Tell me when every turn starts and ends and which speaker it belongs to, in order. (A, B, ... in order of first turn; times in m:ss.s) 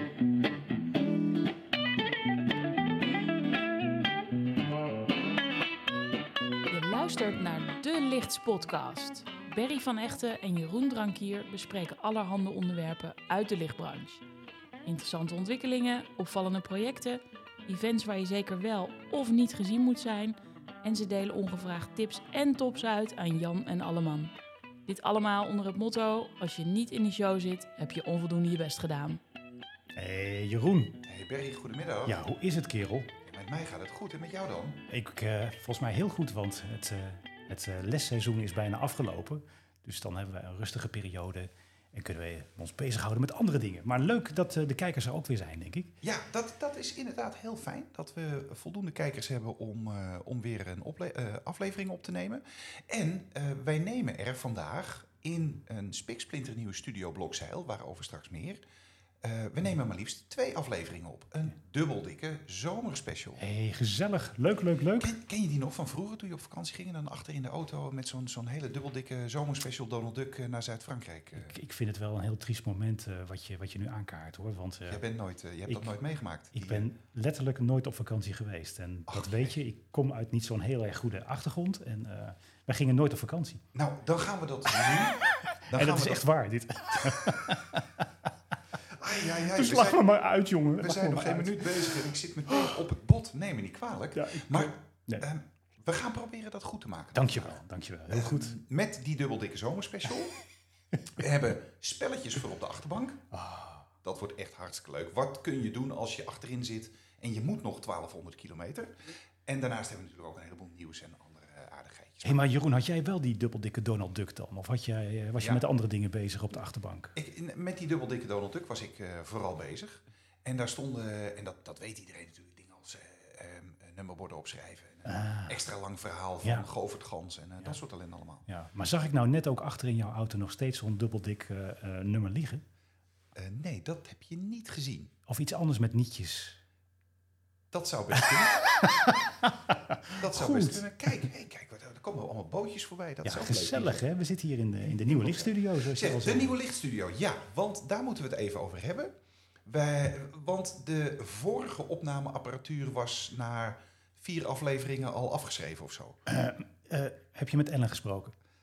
0:06.7-0:14.2 A
0:14.8-0:24.3 A
0:24.9-0:29.2 A
0:30.0-0:31.0 B
0:31.0-0:32.2 C
0:32.0-0:33.1 B
0:33.2-0:34.8 C
0:34.9-0:45.9 B
0:46.0-0:58.6 C
0:59.2-1:03.4 C
1:03.4-1:05.1 B
1:05.0-1:11.6 C
1:11.3-1:15.0 B
1:14.9-1:16.9 C
1:15.7-1:15.9 B
1:16.5-1:23.6 B
1:19.1-1:19.5 C
1:23.7-1:26.3 C
1:25.5-1:28.0 B
1:27.0-1:27.4 C
1:28.9-1:30.1 C
1:29.3-1:32.7 B
1:30.8-1:40.3 C
1:34.1-1:35.2 B
1:37.1-1:38.6 B
1:41.2-1:43.2 C
1:43.3-1:43.9 B
1:44.0-1:48.9 C
1:49.4-1:52.4 C
1:52.2-1:57.1 B
1:55.4-1:55.6 C
1:57.1-2:08.4 C
2:05.0-2:05.6 B
2:08.5-2:12.6 B
2:13.3-2:15.1 C
2:15.3-2:16.6 B
2:17.7-2:18.6 C
2:18.7-2:21.3 B
2:20.2-2:24.0 C
2:23.2-2:26.6 B
2:24.8-2:29.1 C
2:29.6-2:36.2 C
2:36.3-2:38.3 B